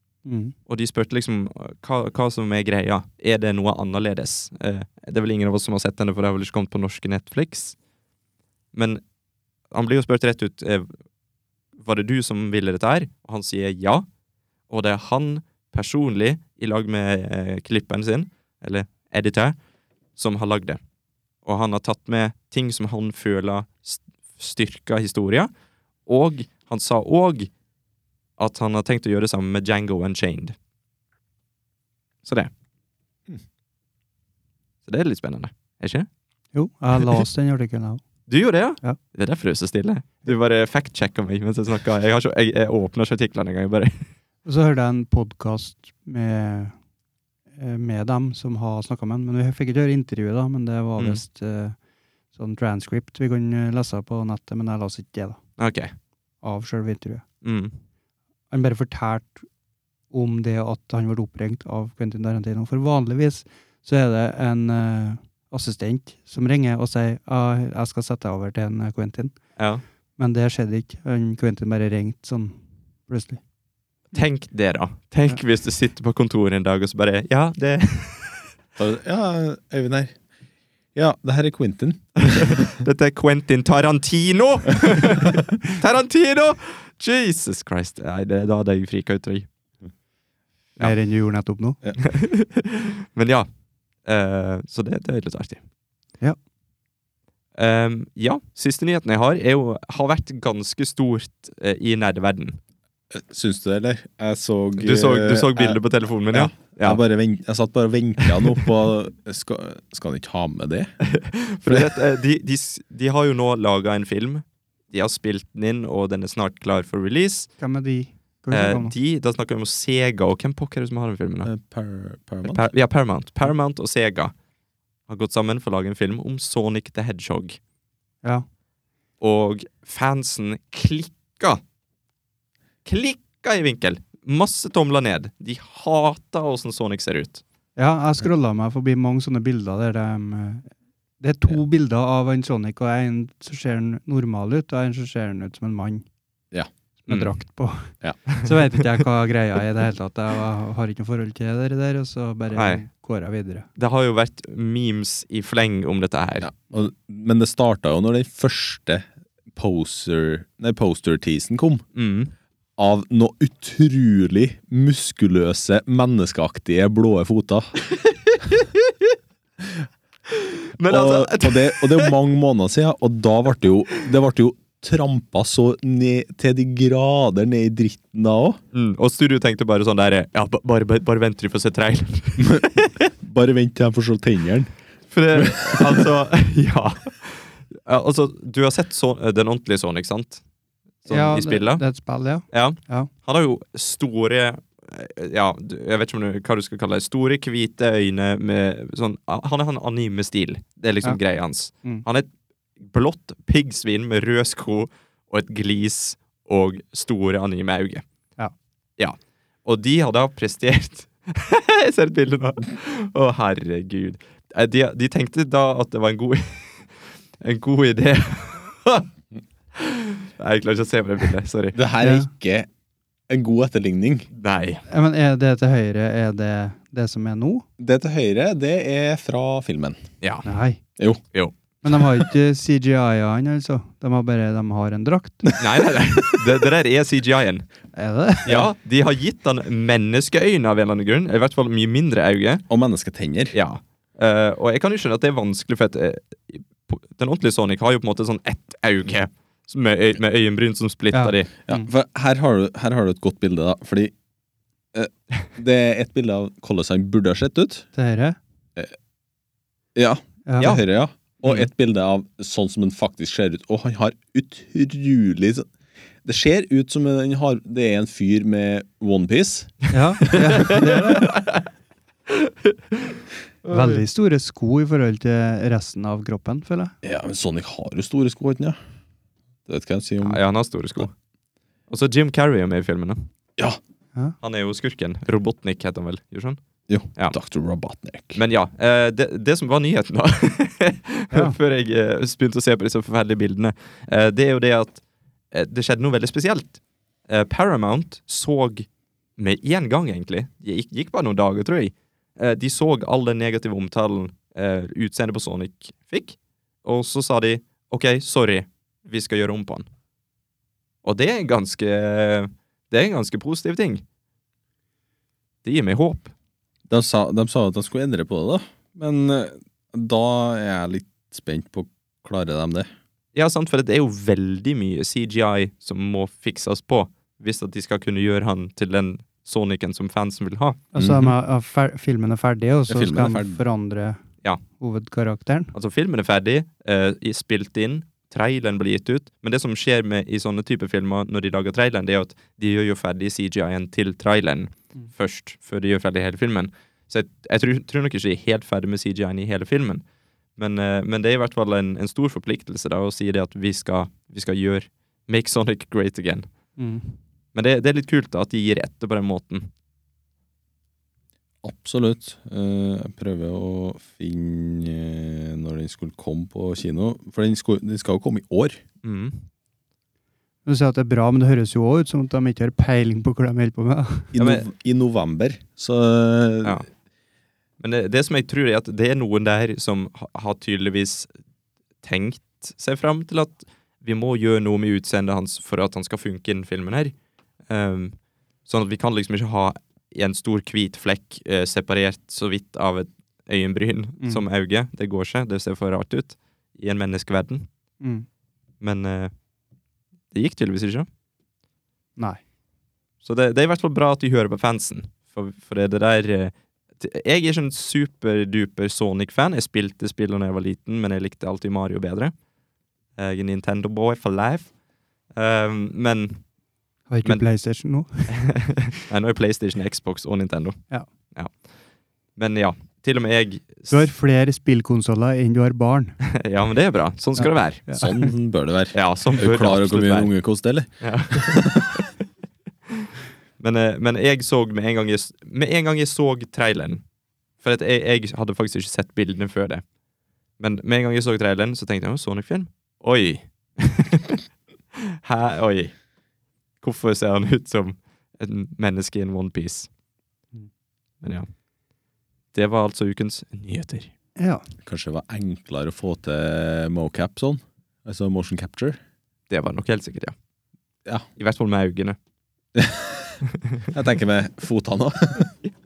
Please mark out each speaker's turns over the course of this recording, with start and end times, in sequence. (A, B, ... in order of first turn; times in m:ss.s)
0:00.2-0:00.5 A
0:00.7-0:07.8 B
0:08.7-0:09.0 B
0:09.7-0:10.9 B
0:11.8-0:14.0 B
0:14.7-0:19.6 B
0:20.2-0:20.8 B
0:21.4-0:25.5 B
0:26.0-0:27.5 B
0:28.4-0:30.6 B
0:32.2-0:32.5 B
0:34.8-0:36.1 B
0:36.5-0:38.0 A
0:38.3-0:44.1 B
0:44.4-0:46.8 A
0:47.6-0:51.8 A
0:52.3-0:55.4 A
0:55.6-0:55.9 B
0:56.4-0:57.2 A
0:57.4-0:57.7 B
0:58.5-0:59.5 A
1:00.1-1:09.4 A
1:09.6-1:09.8 B
1:10.2-1:13.4 A
1:14.1-1:18.5 B
1:18.8-1:20.1 C
1:20.9-1:22.7 C
1:22.2-1:29.5 B
1:30.8-1:31.8 A
1:32.0-1:33.5 B
1:34.0-1:35.6 B
1:37.6-1:42.6 B
1:43.1-1:45.8 C
1:44.8-1:47.0 B
1:46.3-1:50.9 C
1:48.2-1:48.7 B
1:51.0-1:57.5 B
1:51.6-1:52.0 C
1:57.6-1:58.9 A
1:58.5-2:01.5 B
2:01.4-2:02.6 C
2:02.4-2:04.3 B
2:05.1-2:07.6 B
2:09.2-2:11.6 B
2:12.8-2:17.4 B
2:17.8-2:26.0 A
2:27.0-2:33.7 A
2:27.1-2:27.3 B
2:28.3-2:29.0 B
2:32.5-2:32.8 B
2:33.8-2:36.5 B
2:36.4-2:41.8 C
2:41.9-2:42.3 B
2:42.8-2:47.7 C
2:47.9-2:49.2 B
2:50.3-2:52.1 B
2:50.9-2:58.6 C
2:58.7-3:03.0 B
3:02.4-3:02.7 C
3:03.2-3:04.7 C
3:05.1-3:10.4 B
3:05.3-3:06.1 C
3:11.0-3:11.8 B
3:11.1-3:13.1 A
3:12.5-3:22.3 B
3:22.8-3:28.0 B
3:29.0-3:39.1 B
3:39.7-3:41.8 B
3:41.7-3:42.7 C
3:42.0-3:42.3 A
3:43.3-3:44.3 C
3:44.3-3:44.8 B
3:44.9-3:47.6 A
3:47.8-3:50.0 C
3:50.2-3:50.4 B
3:50.4-3:50.8 A
3:51.8-3:55.5 A
3:55.4-3:55.9 C
3:55.6-3:57.6 B
3:57.9-3:58.6 A
3:58.4-4:02.6 B
4:02.7-4:03.6 C
4:03.5-4:11.5 B
4:11.1-4:11.9 A
4:11.7-4:14.1 C
4:14.9-4:17.8 C
4:17.9-4:18.4 A
4:19.9-4:25.7 C
4:20.4-4:20.8 A
4:26.2-4:30.3 C
4:29.9-4:31.3 A
4:30.3-4:31.6 B
4:32.3-4:34.0 B
4:33.7-4:36.9 A
4:37.0-4:38.8 C
4:39.7-4:40.4 C
4:40.2-4:41.1 B
4:41.9-4:43.3 B
4:44.4-4:46.6 B
4:46.9-4:48.4 C
4:48.4-5:09.9 B
5:11.0-5:14.0 B
5:15.6-5:16.3 B
5:16.9-5:22.9 C
5:23.3-5:30.8 B
5:30.9-5:34.2 A
5:31.0-5:31.3 C
5:32.9-5:33.6 C
5:34.8-5:35.7 A
5:35.7-5:50.0 B
5:50.6-5:56.5 B
5:56.8-5:57.2 A
5:57.5-5:59.7 B
6:01.6-6:08.8 C
6:09.0-6:09.4 B
6:10.6-6:14.3 A
6:14.3-6:16.8 C
6:14.4-6:14.6 B
6:17.8-6:21.3 B
6:22.0-6:27.1 B
6:27.7-6:37.7 B
6:38.0-6:38.2 A
6:38.8-6:39.3 B
6:40.3-6:41.1 B
6:43.2-6:52.3 B
6:53.2-6:54.7 B
6:55.3-6:56.4 B
6:57.1-6:58.3 A
6:58.3-7:00.8 B
7:02.4-7:04.1 B
7:03.9-7:06.2 A
7:06.2-7:07.9 B
7:07.4-7:08.3 A
7:07.9-7:12.0 C
7:08.9-7:10.3 B
7:11.0-7:12.1 B
7:12.9-7:17.0 B
7:17.6-7:19.8 B
7:20.6-7:24.4 B
7:25.0-7:25.9 B
7:26.8-7:29.9 B
7:31.2-7:31.5 B
7:32.5-7:34.1 B
7:34.4-7:34.6 A
7:34.8-7:39.0 C
7:39.5-7:40.3 B
7:41.4-7:42.2 B
7:42.7-7:43.4 C
7:43.9-7:45.5 C